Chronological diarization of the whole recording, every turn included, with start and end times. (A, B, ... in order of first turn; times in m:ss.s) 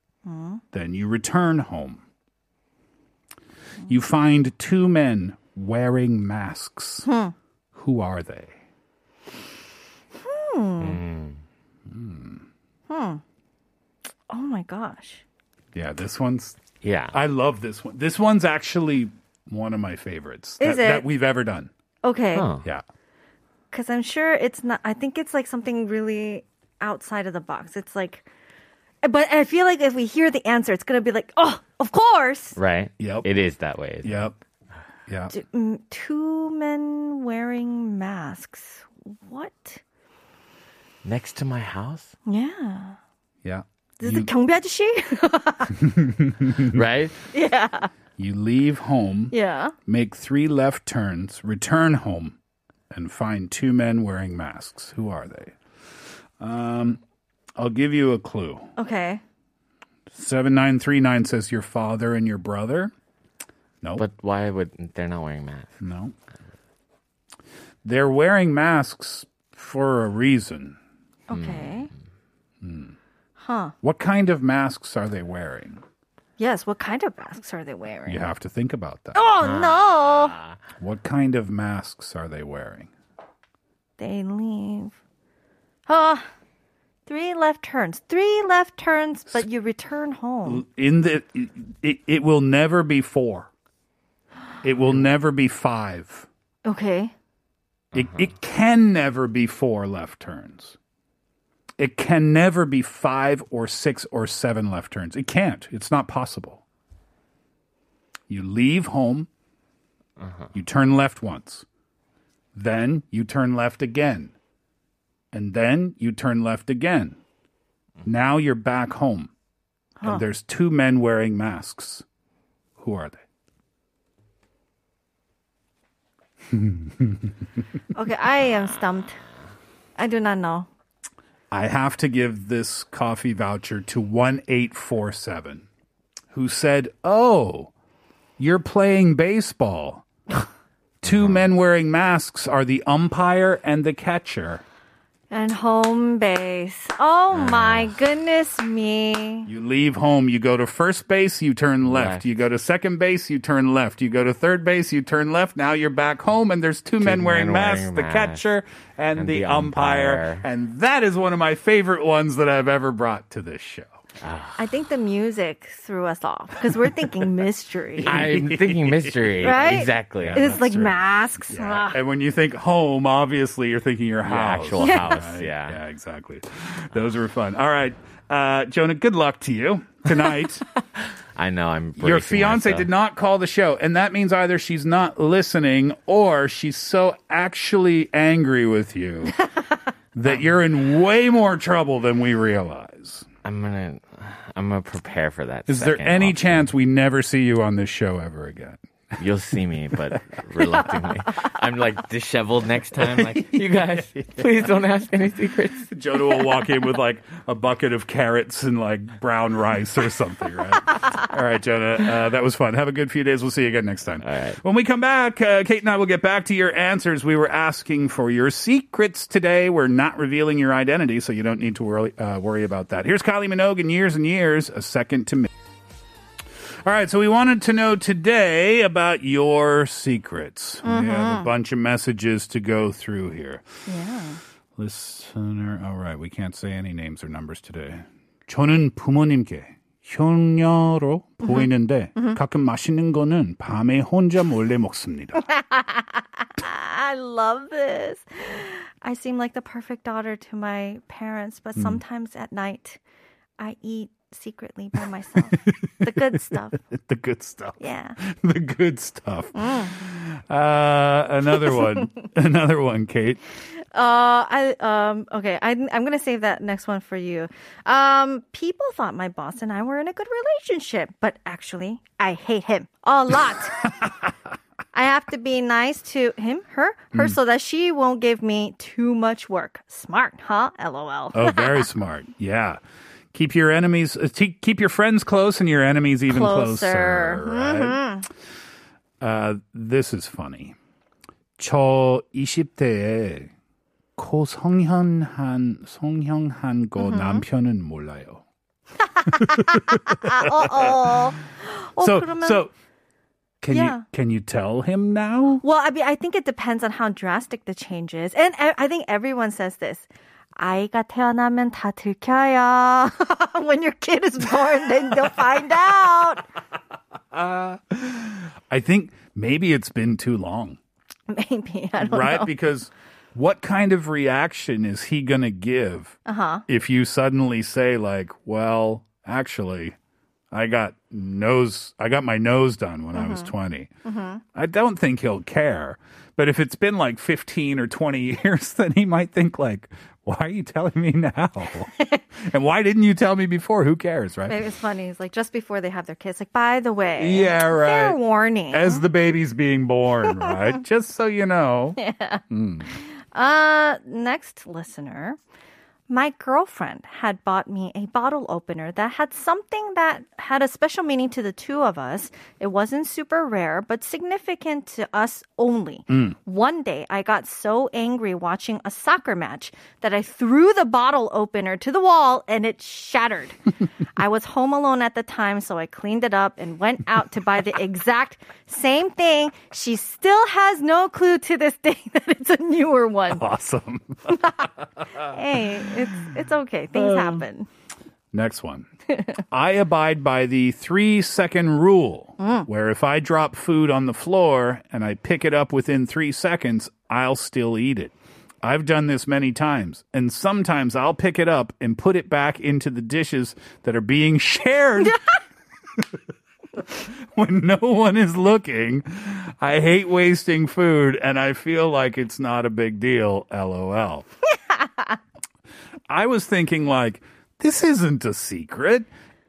0:00.2-0:00.6 A
0:00.7-0:02.0 B
0:03.9-0:07.1 B
0:07.0-0:07.3 A
0:07.7-0:08.5 B
0:10.2-0:11.0 A
0:10.8-0:11.4 C
0:11.9-0:12.4 B
0:12.9-0:13.2 A
0:14.3-0:15.2 A
0:15.7-0:16.6 B
0:16.8-0:17.2 C
0:17.1-0:21.7 B
0:20.6-0:21.1 A
0:22.0-0:22.5 A
0:22.3-0:22.6 C
0:23.7-0:28.2 A
0:29.0-0:32.6 A
0:32.6-0:34.3 C
0:33.0-0:33.3 B
0:34.0-0:34.3 B
0:35.1-0:35.3 B
0:35.3-0:39.8 A
0:41.0-0:42.1 C
0:42.3-0:43.0 A
0:43.4-0:44.3 B
0:44.0-0:45.8 A
0:45.8-0:46.8 B
0:46.7-0:47.1 C
0:47.3-0:47.9 A
0:48.2-0:49.3 B
0:49.3-0:49.7 A
0:49.8-0:52.4 B
0:52.9-0:55.6 B
0:56.4-0:57.0 B
0:57.6-0:58.7 B
0:58.8-0:59.2 A
1:00.1-1:02.9 B
1:04.0-1:05.7 C
1:05.8-1:06.1 B
1:07.8-1:10.8 B
1:11.3-1:11.9 A
1:11.3-1:11.9 C
1:12.6-1:12.9 B
1:13.4-1:13.7 A
1:13.8-1:15.8 B
1:16.4-1:18.2 A
1:18.0-1:19.3 B
1:19.1-1:20.3 A
1:19.4-1:20.5 C
1:20.8-1:22.9 B
1:24.0-1:24.9 A
1:25.9-1:26.3 A
1:27.1-1:30.6 A
1:30.4-1:33.5 B
1:34.6-1:36.3 B
1:36.6-1:37.1 A
1:37.9-1:40.8 B
1:41.8-1:46.6 B
1:48.3-1:49.3 B
1:50.5-1:51.6 B
1:52.5-1:54.3 B
1:55.3-1:57.2 B
1:58.0-1:59.3 B
2:00.0-2:02.0 B
2:02.8-2:03.2 B
2:06.5-2:07.3 B
2:07.9-2:09.2 A
2:10.0-2:10.7 A
2:11.5-2:15.6 B
2:16.3-2:17.7 B
2:18.4-2:20.0 B
2:21.0-2:24.6 B
2:21.0-2:21.4 C
2:25.3-2:29.5 A
2:27.4-2:27.9 C
2:29.4-2:43.9 B
2:31.8-2:32.3 C
2:37.0-2:38.4 C
2:39.2-2:40.4 C
2:44.2-2:44.6 C
2:44.6-2:48.2 A
2:47.9-2:50.9 B
2:48.0-2:50.6 C
2:49.4-2:52.0 A
2:51.5-3:00.6 B
2:54.2-2:55.8 C
2:54.8-2:55.1 A
3:01.4-3:02.9 C
3:02.0-3:09.4 B
3:10.1-3:13.3 B
3:13.4-3:16.6 C
3:15.7-3:19.2 B
3:19.2-3:25.9 C
3:23.0-3:24.0 B
3:25.9-3:45.5 B
3:34.2-3:34.6 C
3:46.8-3:53.6 B
3:50.8-3:51.5 A
3:53.9-3:54.4 A
3:54.8-4:05.4 B
4:01.4-4:02.4 A
4:05.5-4:13.0 A
4:11.8-4:12.0 B
4:13.6-4:16.8 A
4:15.5-4:23.4 B
4:17.8-4:18.2 A
4:19.5-4:19.9 A
4:23.9-4:34.0 A
4:34.9-4:41.8 A
4:41.3-4:42.8 B
4:43.3-4:48.0 B
4:46.3-4:48.3 A
4:49.2-4:50.7 B
4:51.6-4:53.5 B
4:54.2-4:58.4 B
4:57.0-4:57.4 A
4:59.1-5:02.7 A
4:59.3-5:01.3 B
5:02.0-5:02.7 B
5:03.6-5:05.6 B
5:03.7-5:04.0 A
5:05.6-5:16.4 A
5:17.3-5:20.8 B
5:21.3-5:22.5 A
5:22.0-5:26.2 B
5:26.2-5:26.6 A
5:26.7-5:29.9 B
5:30.5-5:33.9 B
5:33.1-5:33.5 A
5:34.0-5:34.4 A
5:34.5-5:44.6 B
5:42.0-5:42.2 A
5:44.5-5:49.0 A
5:47.2-5:48.2 B
5:48.7-5:52.0 B
5:52.0-5:55.4 A
5:52.5-5:52.9 B
5:56.1-6:13.6 A
6:14.2-6:23.4 A
6:23.3-6:25.4 B
6:25.2-6:27.7 A
6:26.9-6:27.4 B
6:28.3-6:28.9 B
6:29.1-6:29.4 A
6:29.5-6:45.2 B
6:32.4-6:32.7 A
6:46.8-6:54.2 B
6:54.7-6:55.2 A
6:56.1-6:59.1 B